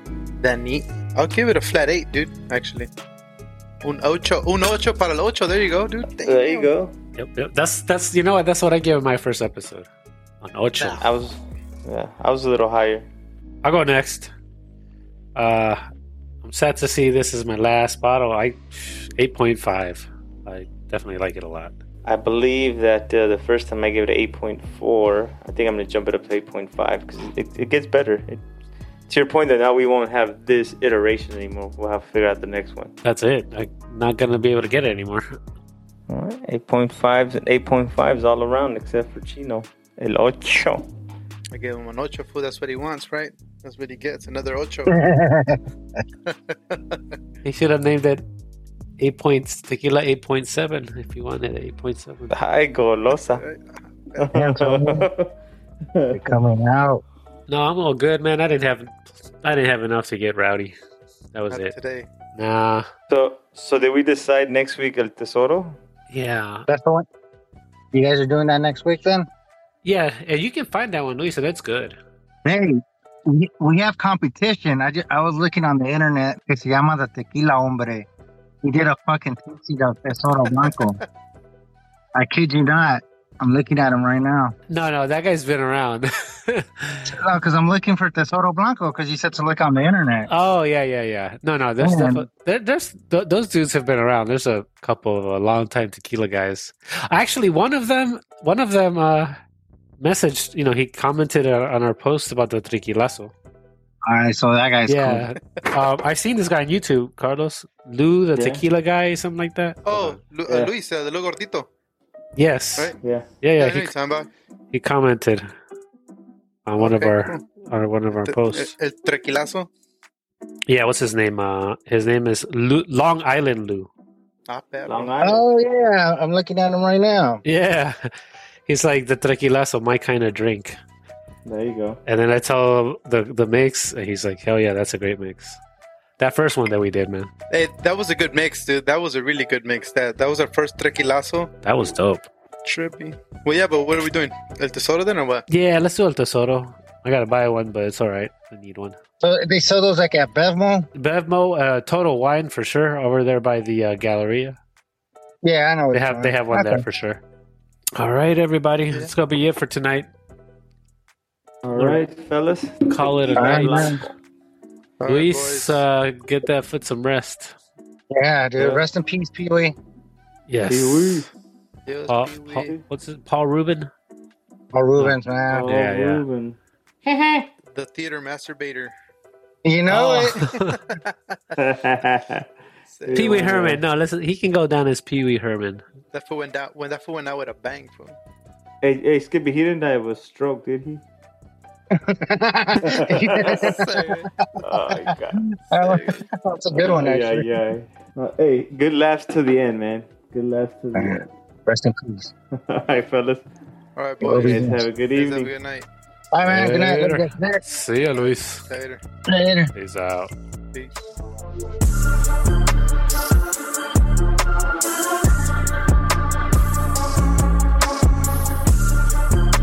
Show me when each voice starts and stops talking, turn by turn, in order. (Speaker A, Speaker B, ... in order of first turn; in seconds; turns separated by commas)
Speaker A: 0.4-2.9, Speaker A: 3.8-6.7, Speaker B: 6.2-6.9, Speaker C: 7.2-9.9, Speaker C: 10.4-11.1, Speaker B: 11.0-13.1, Speaker C: 13.6-14.3, Speaker C: 15.3-15.8, Speaker C: 16.4-21.7, Speaker B: 22.1-28.4, Speaker B: 29.1-32.9, Speaker C: 33.0-35.3, Speaker B: 36.1-40.9, Speaker A: 41.5-45.0, Speaker D: 44.9-45.6, Speaker A: 46.3-47.0, Speaker C: 47.4-48.2, Speaker C: 49.0-52.4, Speaker B: 52.3-53.4, Speaker A: 53.3-54.3, Speaker B: 54.1-55.3, Speaker D: 54.3-55.1, Speaker B: 55.9-56.4, Speaker D: 56.1-57.0, Speaker C: 57.5-60.7, Speaker C: 61.3-61.7, Speaker A: 61.5-62.1, Speaker C: 62.3-62.9, Speaker B: 63.1-65.8, Speaker C: 66.1-66.7, Speaker D: 66.7-67.0, Speaker D: 67.9-69.3, Speaker C: 69.8-72.0, Speaker D: 72.4-78.1, Speaker D: 78.6-81.0, Speaker A: 80.5-81.0, Speaker D: 82.1-84.5, Speaker C: 84.7-87.1, Speaker D: 87.1-90.3, Speaker C: 90.3-99.4, Speaker D: 91.8-92.2, Speaker C: 100.0-103.3, Speaker D: 104.0-105.3, Speaker C: 104.9-110.2, Speaker B: 108.3-108.6, Speaker A: 109.9-111.7, Speaker B: 110.5-110.7, Speaker C: 112.4-113.9, Speaker B: 113.0-113.3, Speaker A: 113.6-114.3, Speaker C: 114.7-115.5, Speaker C: 116.7-118.7, Speaker A: 116.8-117.4, Speaker A: 118.2-119.7, Speaker C: 120.7-123.9, Speaker A: 124.5-125.1, Speaker B: 124.9-125.5, Speaker D: 125.2-127.4, Speaker C: 127.4-128.1, Speaker C: 128.7-130.8, Speaker B: 131.4-132.0, Speaker C: 132.1-135.6, Speaker C: 136.2-137.3, Speaker A: 137.5-141.5, Speaker C: 141.6-142.3, Speaker A: 142.6-145.4, Speaker C: 145.5-149.0, Speaker D: 149.2-150.9, Speaker C: 150.9-154.6, Speaker D: 155.4-156.8, Speaker C: 155.9-157.2, Speaker C: 157.9-160.1, Speaker B: 161.6-164.1, Speaker C: 161.7-162.0, Speaker C: 162.9-164.0, Speaker D: 163.4-164.0, Speaker A: 165.0-165.8, Speaker C: 165.1-167.6, Speaker D: 168.1-169.8, Speaker B: 168.6-168.8, Speaker C: 170.5-171.3, Speaker B: 170.7-171.3, Speaker A: 171.9-172.7, Speaker C: 172.1-173.9, Speaker D: 174.7-175.7, Speaker C: 175.0-176.3, Speaker B: 175.5-176.6, Speaker D: 177.1-177.4, Speaker A: 177.7-178.9, Speaker D: 179.6-180.4, Speaker C: 179.9-180.8, Speaker A: 180.5-181.4, Speaker B: 181.6-182.4, Speaker A: 182.9-183.6, Speaker B: 183.1-183.8, Speaker C: 183.1-185.8, Speaker A: 186.1-188.2, Speaker B: 188.8-191.0, Speaker D: 191.9-194.0, Speaker B: 192.8-193.7, Speaker A: 193.3-194.3, Speaker B: 194.6-196.2, Speaker D: 194.8-197.5, Speaker A: 195.8-196.1, Speaker B: 196.7-201.2, Speaker D: 200.9-202.3, Speaker B: 202.5-203.4, Speaker A: 203.9-205.9, Speaker D: 204.2-204.8, Speaker B: 204.2-205.5, Speaker D: 206.3-207.6, Speaker C: 206.4-208.7, Speaker A: 208.7-209.0, Speaker D: 209.3-209.7, Speaker C: 209.7-210.3